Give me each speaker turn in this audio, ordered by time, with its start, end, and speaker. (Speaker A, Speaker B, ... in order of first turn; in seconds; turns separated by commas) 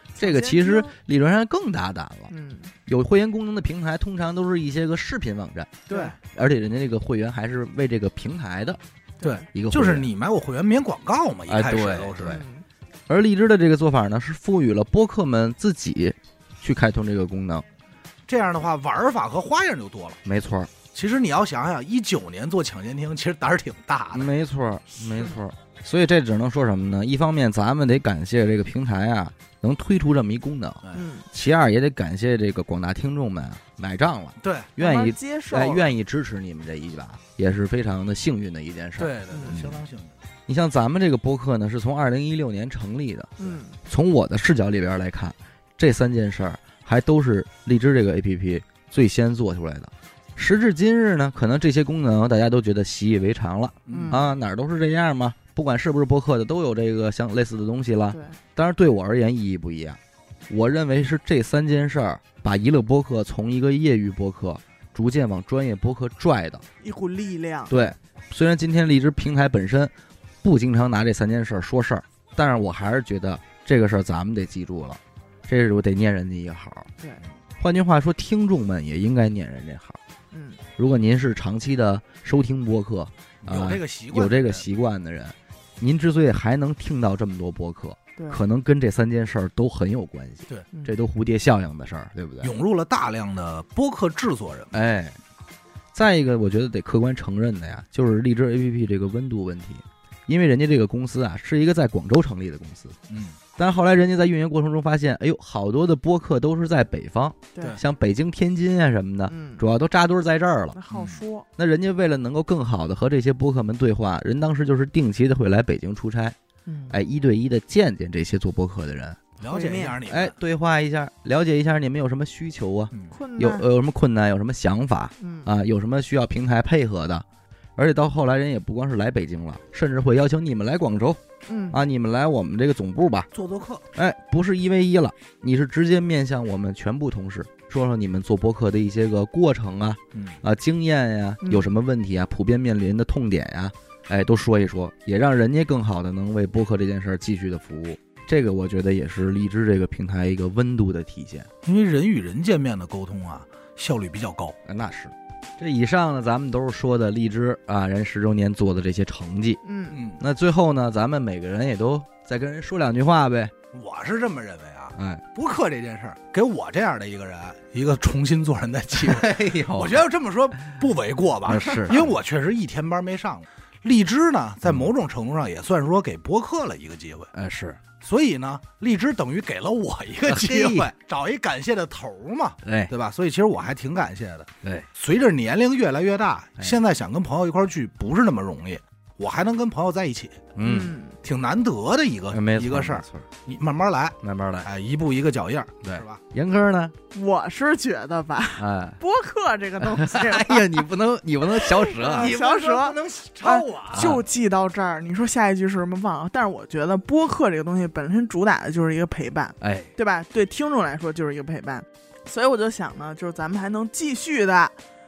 Speaker A: 0.2-0.9, Speaker B: 0.2-2.3, Speaker A: 2.3-2.7, Speaker B: 2.9-5.8, Speaker C: 5.8-6.2, Speaker A: 5.9-6.1, Speaker B: 6.3-8.8, Speaker A: 9.2-9.5, Speaker C: 9.2-12.4, Speaker B: 9.5-10.1, Speaker B: 11.5-12.4, Speaker A: 12.2-12.7, Speaker B: 13.1-17.6, Speaker C: 18.3-20.2, Speaker B: 20.2-20.7, Speaker C: 20.9-24.3, Speaker B: 24.1-39.8, Speaker A: 30.9-31.3, Speaker C: 34.4-34.7, Speaker A: 34.8-35.9, Speaker C: 39.0-40.2, Speaker A: 39.3-39.6, Speaker B: 40.5-43.3, Speaker A: 43.4-43.8, Speaker B: 43.9-66.6, Speaker C: 53.9-54.2, Speaker A: 53.9-54.3, Speaker A: 58.1-58.4, Speaker A: 66.8-67.9, Speaker B: 67.7-69.9, Speaker B: 70.4-76.9, Speaker A: 77.0-77.2, Speaker B: 77.6-80.0, Speaker A: 80.3-80.6, Speaker B: 80.8-92.5, Speaker C: 83.4-84.7, Speaker A: 88.2-88.4, Speaker C: 92.4-94.7, Speaker B: 94.7-95.2, Speaker B: 95.9-103.0, Speaker C: 103.1-103.4, Speaker B: 103.6-110.8, Speaker A: 107.5-107.8, Speaker A: 109.3-109.7, Speaker A: 110.7-111.5, Speaker C: 110.9-111.2, Speaker B: 111.6-116.3, Speaker A: 116.7-117.0, Speaker B: 116.9-119.2, Speaker C: 119.4-120.3, Speaker A: 119.5-120.0, Speaker B: 120.0-127.2, Speaker C: 122.9-123.2, Speaker A: 123.1-123.7, Speaker A: 125.2-125.5, Speaker B: 127.8-131.2, Speaker A: 131.4-131.8, Speaker B: 131.7-133.3, Speaker C: 133.3-133.9, Speaker B: 133.9-151.5, Speaker C: 140.1-140.4, Speaker C: 151.6-154.6, Speaker B: 154.7-159.6, Speaker A: 159.6-160.0, Speaker C: 159.9-160.2, Speaker B: 160.2-163.5, Speaker C: 163.7-177.3, Speaker B: 164.9-165.2, Speaker B: 168.9-170.0, Speaker B: 171.5-172.1, Speaker B: 177.3-177.8, Speaker C: 178.0-190.4, Speaker B: 180.2-180.9, Speaker B: 182.6-182.9, Speaker B: 190.6-190.9, Speaker A: 190.6-191.2, Speaker C: 191.2-196.2, Speaker B: 192.3-193.3, Speaker B: 194.2-194.7, Speaker B: 195.9-196.9, Speaker A: 197.1-200.8, Speaker B: 198.6-199.0, Speaker B: 199.9-202.3, Speaker A: 201.6-214.8, Speaker C: 202.1-204.2, Speaker B: 203.9-204.2, Speaker B: 209.6-209.9